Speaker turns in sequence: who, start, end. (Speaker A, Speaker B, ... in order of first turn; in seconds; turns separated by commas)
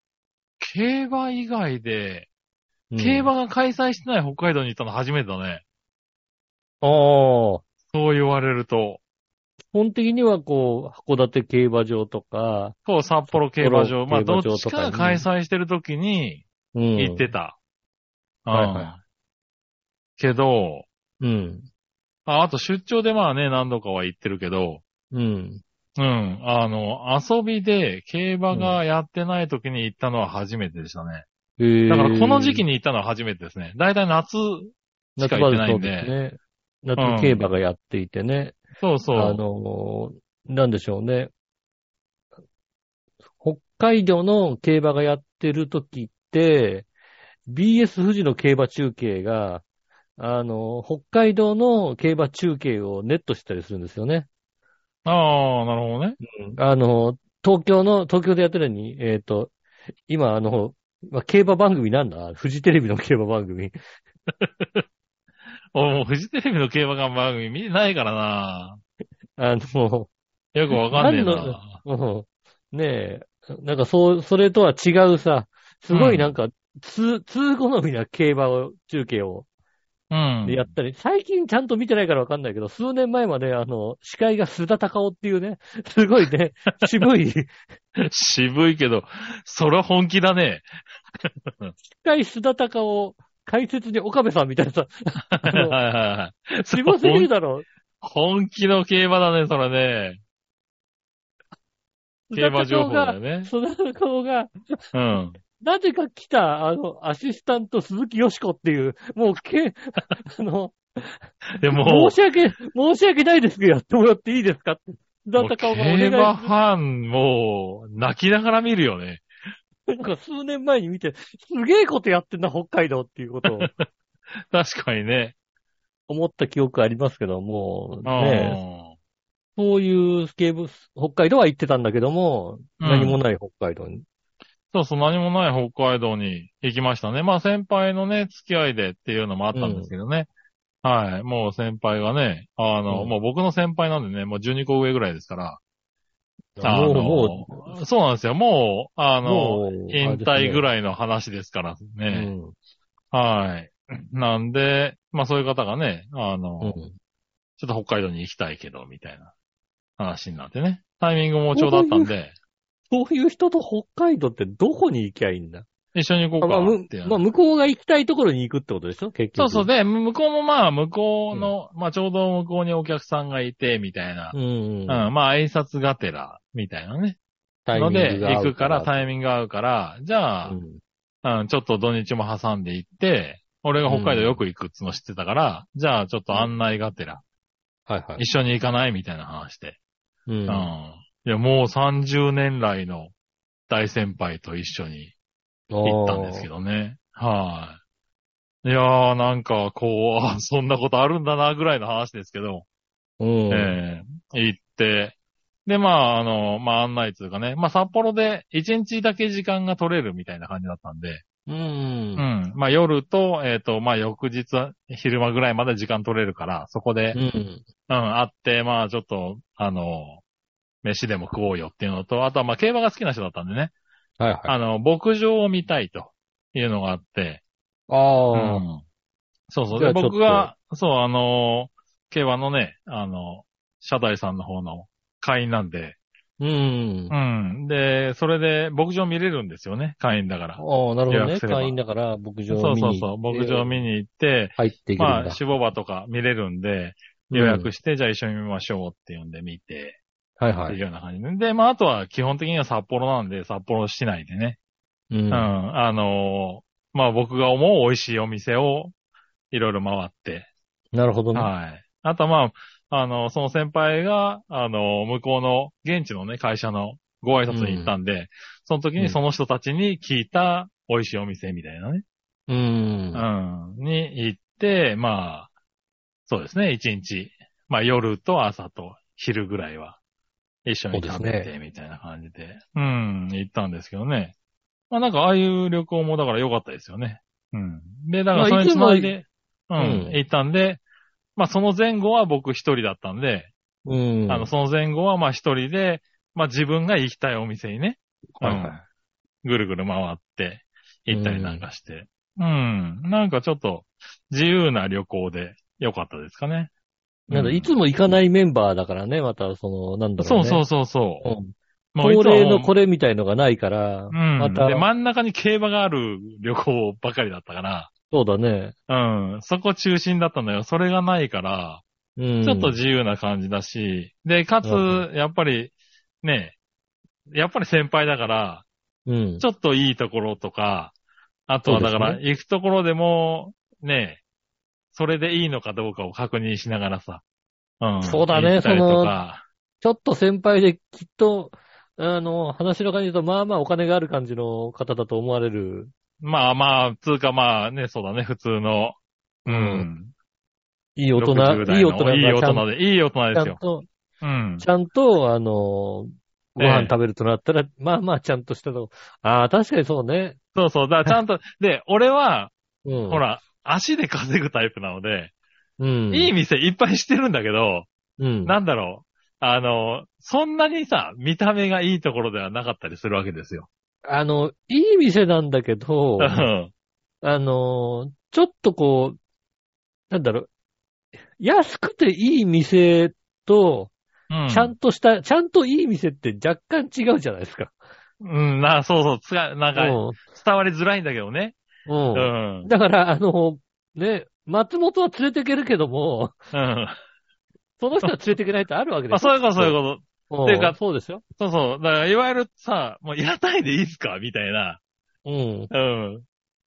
Speaker A: 0.6-2.3, Speaker B: 2.9-3.3, Speaker A: 3.0-5.6, Speaker B: 6.8-7.6, Speaker A: 7.9-9.0, Speaker B: 9.7-12.8, Speaker A: 12.8-16.4, Speaker B: 13.3-15.2, Speaker B: 16.7-17.3, Speaker A: 16.9-17.6, Speaker A: 18.4-19.0, Speaker B: 18.5-18.9, Speaker A: 20.2-20.9, Speaker B: 21.2-21.7, Speaker A: 22.2-24.8, Speaker B: 25.1-25.6, Speaker A: 26.0-31.2, Speaker B: 31.6-32.6, Speaker A: 31.9-36.1, Speaker B: 35.2-38.6, Speaker A: 37.0-37.4, Speaker A: 38.8-39.4, Speaker B: 39.1-41.3, Speaker B: 43.4-46.9, Speaker B: 47.5-49.6, Speaker B: 50.2-54.3, Speaker A: 55.0-56.2, Speaker B: 56.3-59.5, Speaker B: 60.1-63.7, Speaker A: 64.4-64.8, Speaker A: 65.7-68.8, Speaker B: 69.4-70.1, Speaker A: 70.5-71.8, Speaker B: 70.9-79.5, Speaker A: 75.9-76.3, Speaker A: 80.1-80.7, Speaker B: 80.4-87.5, Speaker A: 88.0-90.7, Speaker A: 91.3-91.7, Speaker B: 92.0-95.8, Speaker A: 95.4-97.3, Speaker B: 96.7-97.7, Speaker A: 98.0-100.2, Speaker B: 102.3-104.8, Speaker A: 102.3-103.5, Speaker A: 104.9-105.4, Speaker B: 105.6-116.5, Speaker A: 111.5-112.1, Speaker A: 115.4-119.2, Speaker B: 119.9-123.7, Speaker A: 123.5-123.8, Speaker A: 124.5-125.3, Speaker B: 126.1-128.6, Speaker A: 128.0-128.9, Speaker B: 129.6-134.0, Speaker A: 132.8-133.2, Speaker A: 134.7-140.3, Speaker B: 139.5-139.9, Speaker A: 140.8-145.6, Speaker B: 142.9-143.1, Speaker B: 146.6-147.8, Speaker A: 146.6-152.3, Speaker B: 149.2-150.7, Speaker B: 152.1-152.5, Speaker A: 153.1-156.8, Speaker B: 156.6-156.9, Speaker A: 157.6-159.3, Speaker A: 160.0-162.3, Speaker B: 161.5-162.1, Speaker B: 162.9-165.7, Speaker A: 165.9-167.2, Speaker B: 166.4-169.7, Speaker A: 169.4-174.3, Speaker B: 174.3-175.1, Speaker A: 174.9-177.2, Speaker B: 177.7-179.1, Speaker A: 177.7-180.6, Speaker B: 180.4-180.8, Speaker A: 181.2-187.2, Speaker B: 183.8-184.4, Speaker B: 187.9-188.2, Speaker A: 188.2-189.8, Speaker B: 190.3-190.7, Speaker A: 190.5-193.1, Speaker A: 193.7-195.1, Speaker B: 195.7-196.5, Speaker A: 195.8-197.8, Speaker A: 198.6-202.6, Speaker B: 203.2-203.8, Speaker A: 203.5-205.1, Speaker A: 205.7-211.2, Speaker B: 211.5-212.2, Speaker A: 212.2-217.2, Speaker B: 217.1-217.6, Speaker A: 217.9-220.2, Speaker A: 220.8-223.7, Speaker B: 224.2-224.5, Speaker A: 224.4-227.4, Speaker B: 227.9-228.6, Speaker A: 228.3-228.8, Speaker A: 229.5-235.9, Speaker B: 229.7-230.5, Speaker B: 236.4-237.1, Speaker A: 237.1-241.7, Speaker B: 240.6-243.8, Speaker A: 242.5-250.0, Speaker B: 244.6-245.4, Speaker B: 247.3-247.7, Speaker B: 250.4-250.8, Speaker A: 250.7-254.6, Speaker B: 255.1-255.5, Speaker A: 255.3-258.9, Speaker A: 259.5-260.5, Speaker B: 260.9-261.5, Speaker A: 261.3-272.0, Speaker B: 267.5-267.9, Speaker B: 272.5-273.2, Speaker A: 273.1-275.5, Speaker A: 276.3-280.0, Speaker A: 280.6-284.3, Speaker B: 280.9-281.5, Speaker A: 284.9-290.8, Speaker B: 288.3-289.1, Speaker B: 289.8-290.2, Speaker A: 291.4-293.5, Speaker B: 293.8-294.5, Speaker A: 294.3-298.8, Speaker B: 298.4-298.8, Speaker A: 299.4-306.7, Speaker B: 301.1-301.6, Speaker A: 307.3-307.7, Speaker B: 307.3-310.6, Speaker A: 310.2-311.2, Speaker B: 311.2-314.9, Speaker A: 311.9-312.7, Speaker A: 314.1-317.9, Speaker B: 318.1-318.7, Speaker A: 318.9-321.8, Speaker B: 322.2-322.8, Speaker A: 322.4-326.5, Speaker B: 324.6-325.0, Speaker A: 327.3-328.6, Speaker B: 329.1-329.4, Speaker A: 329.4-330.9, Speaker A: 331.5-334.2, Speaker B: 331.6-332.2, Speaker A: 334.9-337.2, Speaker A: 337.8-339.4, Speaker B: 338.0-339.1, Speaker B: 339.8-345.9, Speaker A: 346.2-350.1, Speaker B: 349.4-349.9, Speaker B: 351.0-352.6, Speaker A: 351.2-353.6, Speaker B: 353.3-353.9, Speaker A: 354.2-354.6, Speaker B: 354.6-360.4, Speaker A: 356.6-356.9, Speaker A: 360.5-362.5, Speaker B: 362.8-363.2, Speaker A: 363.1-365.3, Speaker B: 365.8-366.3, Speaker A: 366.1-367.9, Speaker B: 368.2-368.5, Speaker A: 368.4-373.7, Speaker B: 374.0-376.5, Speaker A: 376.2-376.7, Speaker B: 377.2-379.2, Speaker B: 380.1-380.5, Speaker B: 381.4-383.9, Speaker A: 384.3-384.7, Speaker B: 384.5-387.7, Speaker A: 388.2-391.6, Speaker B: 389.7-390.2, Speaker B: 391.9-396.3, Speaker A: 392.1-392.7, Speaker A: 396.5-397.0, Speaker B: 397.8-399.8, Speaker A: 399.1-400.8, Speaker B: 400.3-401.2, Speaker A: 401.4-404.8, Speaker B: 405.2-405.7, Speaker A: 405.7-406.2